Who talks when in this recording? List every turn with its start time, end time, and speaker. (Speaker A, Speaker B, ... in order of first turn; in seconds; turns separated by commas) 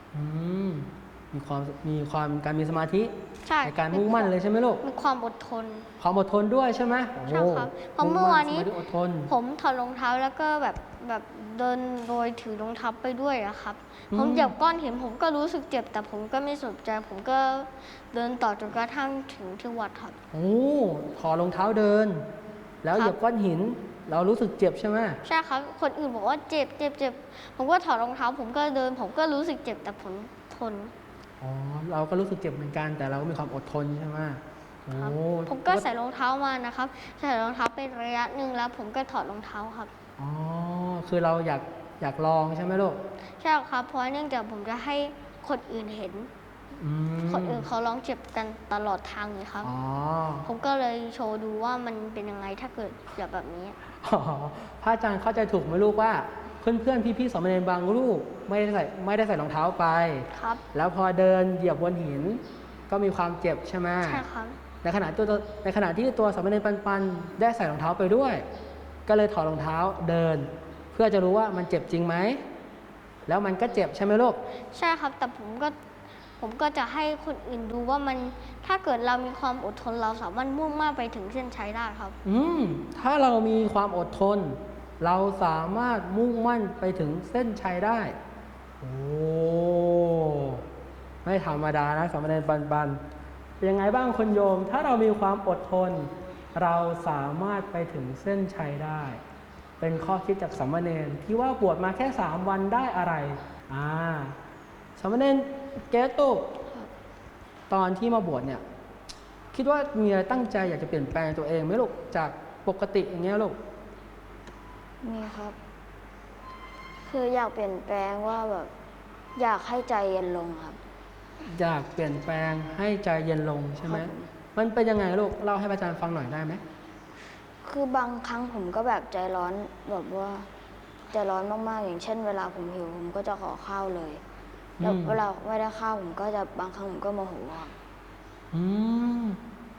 Speaker A: 0.1-4.8, Speaker B: 3.5-5.9, Speaker A: 6.0-9.3, Speaker B: 7.2-20.2, Speaker A: 14.1-14.6, Speaker A: 20.3-22.3, Speaker A: 22.8-25.2, Speaker B: 25.2-30.9, Speaker A: 31.4-35.9, Speaker B: 35.0-39.9, Speaker A: 40.2-43.0, Speaker B: 43.4-46.3, Speaker A: 46.8-47.7, Speaker B: 47.3-49.7, Speaker A: 49.6-50.5, Speaker B: 50.5-53.8, Speaker A: 54.0-64.2, Speaker B: 60.4-60.6, Speaker B: 64.0-64.6, Speaker A: 64.8-68.4, Speaker A: 69.1-72.4, Speaker A: 73.3-74.4, Speaker B: 74.7-75.8, Speaker B: 76.4-82.2, Speaker A: 82.2-88.1, Speaker A: 88.8-90.6, Speaker A: 91.2-93.0, Speaker A: 93.6-99.2, Speaker A: 99.8-104.4, Speaker A: 105.0-106.5, Speaker A: 107.7-108.6, Speaker A: 109.5-113.6, Speaker C: 115.0-115.6, Speaker C: 117.1-118.7, Speaker C: 119.3-120.8, Speaker A: 121.6-126.6, Speaker C: 123.8-124.3, Speaker C: 127.6-130.5, Speaker C: 131.1-134.2, Speaker A: 134.8-135.2, Speaker C: 134.8-137.7, Speaker A: 138.5-139.4